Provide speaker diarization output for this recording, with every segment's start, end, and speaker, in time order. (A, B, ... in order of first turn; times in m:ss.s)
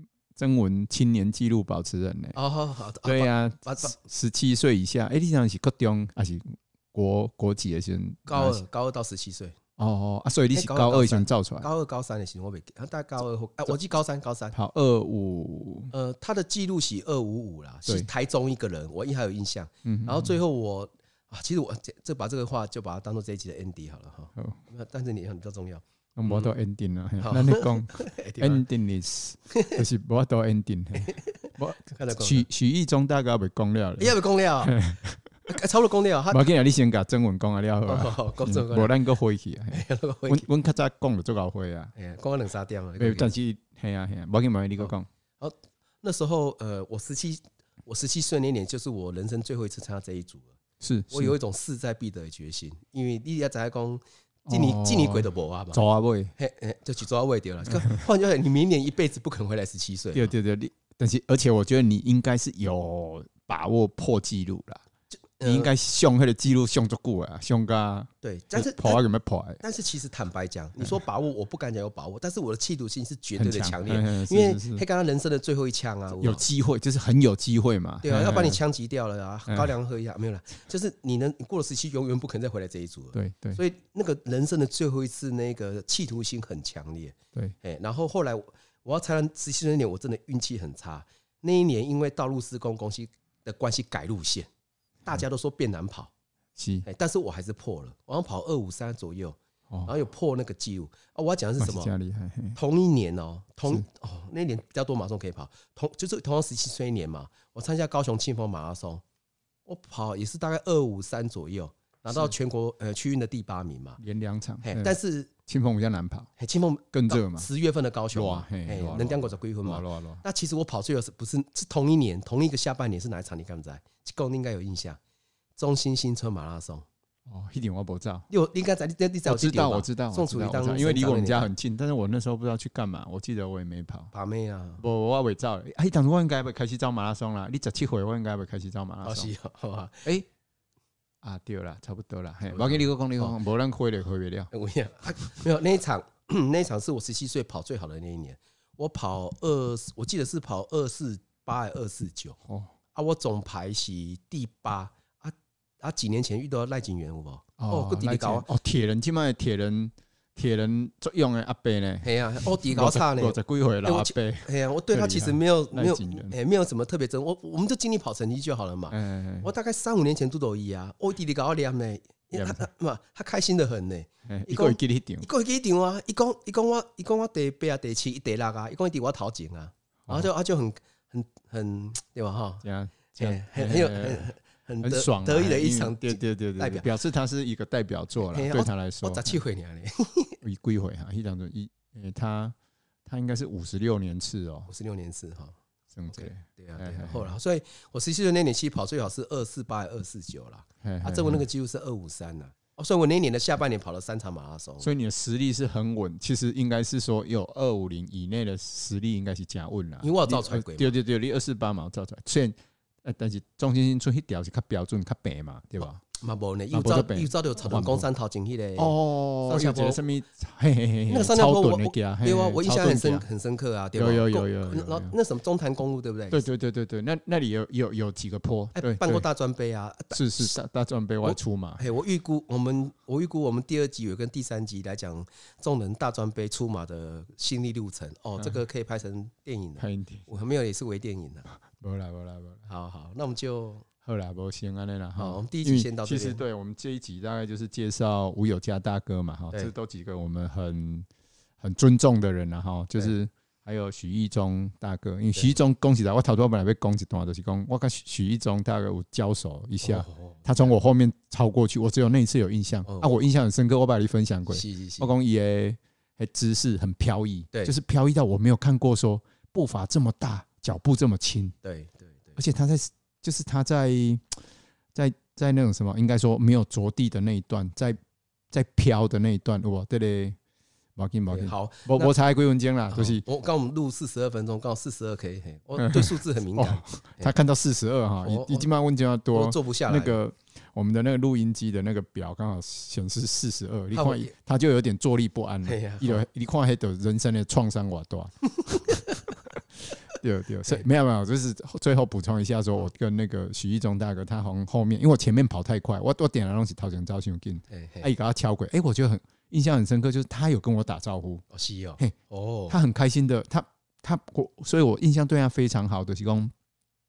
0:00.3-0:02.4 A
0:02.3-0:04.0 B
0:03.0-0:08.6 A
0:08.3-0:09.6 B
0:09.8-0:11.7 A
0:10.5-0:14.5 B
0:14.5-0:15.9 A
0:15.9-0:26.5 B
0:19.8-0:20.3 A
0:26.2-0:35.2 A
0:27.2-0:28.6 B
0:29.5-0:29.8 B
0:31.0-0:32.5 B
0:34.0-0:34.8 B
0:35.5-0:36.4 B
0:36.3-0:41.9 A
0:37.9-0:39.0 B
0:39.7-0:40.5 B
0:41.9-0:43.3 B
0:43.0-0:45.1 A
0:44.8-0:50.6 B
0:50.8-0:51.4 A
0:51.1-0:55.8 B
0:54.5-0:56.3 A
0:56.4-1:00.3 B
1:00.1-1:04.8 A
1:05.4-1:05.7 B
1:05.4-1:09.6 A
1:08.2-1:09.0 B
1:09.6-1:16.4 B
1:13.4-1:14.8 A
1:16.2-1:18.6 A
1:18.0-1:34.5 B
1:23.1-1:23.6 A
1:35.0-1:36.1 B
1:36.6-1:36.8 A
1:36.8-1:41.9 B
1:41.6-1:42.6 A
1:42.6-1:49.0 B
1:49.6-1:54.0 B
1:54.0-1:56.3 A
1:54.6-1:55.3 B
1:56.4-2:05.0 B
1:56.9-1:57.5 A
1:58.1-2:00.2 A
2:05.6-2:06.8 B
2:07.3-2:08.3 A
2:08.3-2:11.5 B
2:09.2-2:14.1 A
2:14.1-2:14.8 B
2:14.8-2:19.3 A
2:19.0-2:20.1 B
2:21.2-2:24.5 A
2:22.5-2:23.4 B
2:24.5-2:32.4 B
2:32.9-2:38.5 B
2:37.6-2:46.4 A
2:42.0-3:06.9 B
2:48.9-2:49.5 A
2:52.3-2:52.6 A
2:54.3-2:55.2 A
3:02.6-3:09.4 A
3:08.2-3:10.4 B
3:10.4-3:12.5 A
3:13.0-3:14.7 A
3:14.7-3:15.6 B
3:15.9-3:17.3 A
3:16.1-3:24.9 B
3:20.8-3:21.4 A
3:24.8-3:36.0 A
3:30.0-3:30.9 B
3:36.1-3:40.0 B
3:36.7-3:38.0 A
3:38.8-3:43.2 A
3:41.1-3:46.4 B
3:44.0-3:45.1 A
3:46.3-3:49.2 A
3:48.8-3:50.5 B
3:50.1-3:51.8 A
3:51.2-4:01.5 B
3:59.8-4:00.3 A
4:01.6-4:02.6 A
4:02.7-4:03.8 B
4:04.0-4:11.1 A
4:05.2-4:06.4 B
4:11.6-4:31.5 A
4:19.8-4:20.7 B
4:22.8-4:23.2 B
4:24.5-4:25.1 B
4:31.6-4:32.4 B
4:32.4-4:34.4 A
4:34.9-4:38.0 A
4:38.5-4:40.4 A
4:41.0-4:43.2 A
4:41.3-4:42.2 B
4:42.9-4:47.3 B
4:45.8-5:11.4 A
4:48.2-4:48.7 B
4:49.3-4:50.2 B
4:53.9-4:54.3 B
4:55.6-4:56.2 B
5:07.7-5:08.1 B
5:11.5-5:12.8 B
5:12.7-5:16.5 A